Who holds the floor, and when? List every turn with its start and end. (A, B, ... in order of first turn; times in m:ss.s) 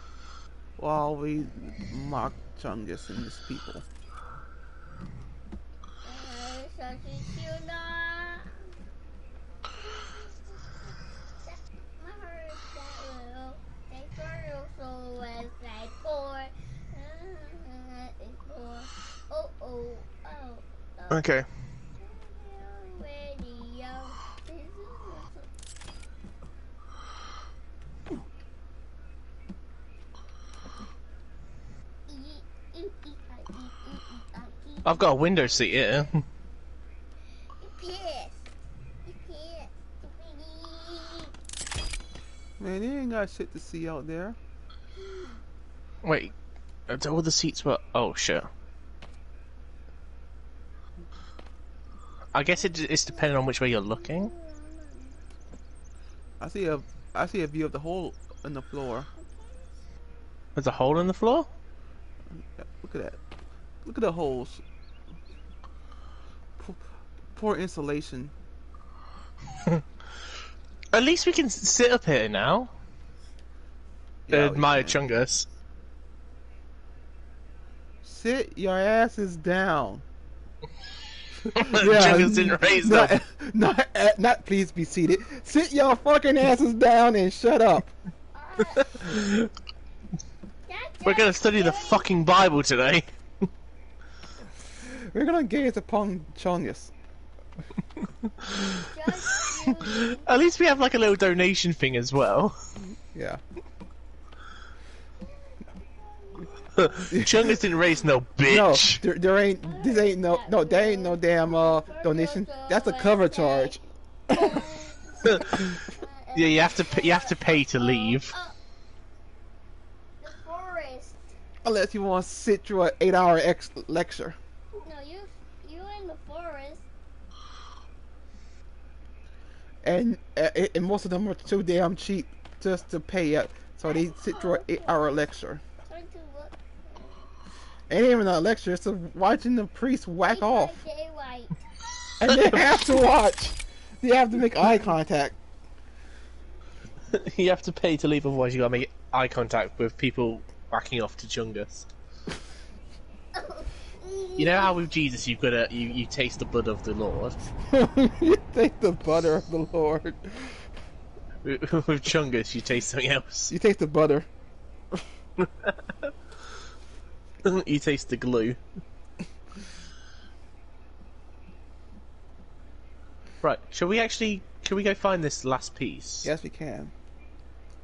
0:00.8-0:03.8 A
0:06.0-0:08.7 B
0:09.8-0:10.9 B
0:11.4-0:21.2 B
0:21.1-0:21.4 C
0:22.0-0:25.5 B
0:32.1-0:35.7 B
0:34.8-0:36.2 C
0:37.6-0:38.5 B
0:39.0-0:41.3 B
0:42.6-0:44.4 A
0:45.0-0:45.4 B
0:46.0-0:46.3 C
0:46.9-0:48.5 C
0:52.3-0:54.3 C
0:52.6-0:55.2 B
0:56.4-0:59.1 A
0:59.2-0:59.7 B
1:00.6-1:01.5 C
1:02.3-1:03.2 A
1:03.8-1:04.6 A
1:06.6-1:08.3 A
1:10.9-1:12.7 C
1:14.3-1:15.0 A
1:14.3-1:15.5 C
1:18.0-1:20.0 A
1:21.5-1:23.2 C
1:21.5-1:27.9 A
1:28.3-1:29.1 B
1:28.9-1:29.5 C
1:30.7-1:32.2 B
1:31.0-1:33.0 C
1:34.8-1:36.9 A
1:38.3-1:38.9 C
1:38.8-1:40.3 B
1:39.8-1:42.6 C
1:43.1-1:43.4 A
1:45.2-1:47.1 B
1:46.8-1:49.0 C
1:47.1-1:47.5 A
1:48.4-1:53.8 A
1:49.6-1:58.6 B
1:55.2-1:55.8 C
1:56.3-1:58.3 C
2:00.2-2:01.4 B
2:01.6-2:04.4 A
2:04.8-2:06.9 B
2:09.8-2:15.6 A
2:13.8-2:15.2 B
2:15.9-2:17.3 B
2:17.9-2:20.8 A
2:20.2-2:21.6 B
2:22.2-2:25.4 A
2:22.2-2:22.5 C
2:27.1-2:31.9 C
2:33.3-2:34.8 B
2:34.4-2:37.4 C
2:37.7-2:40.7 A
2:41.4-2:43.5 C
2:43.5-2:44.3 A
2:45.4-2:46.1 C
2:47.4-2:48.6 C
2:53.4-2:56.3 C
2:56.2-2:56.9 A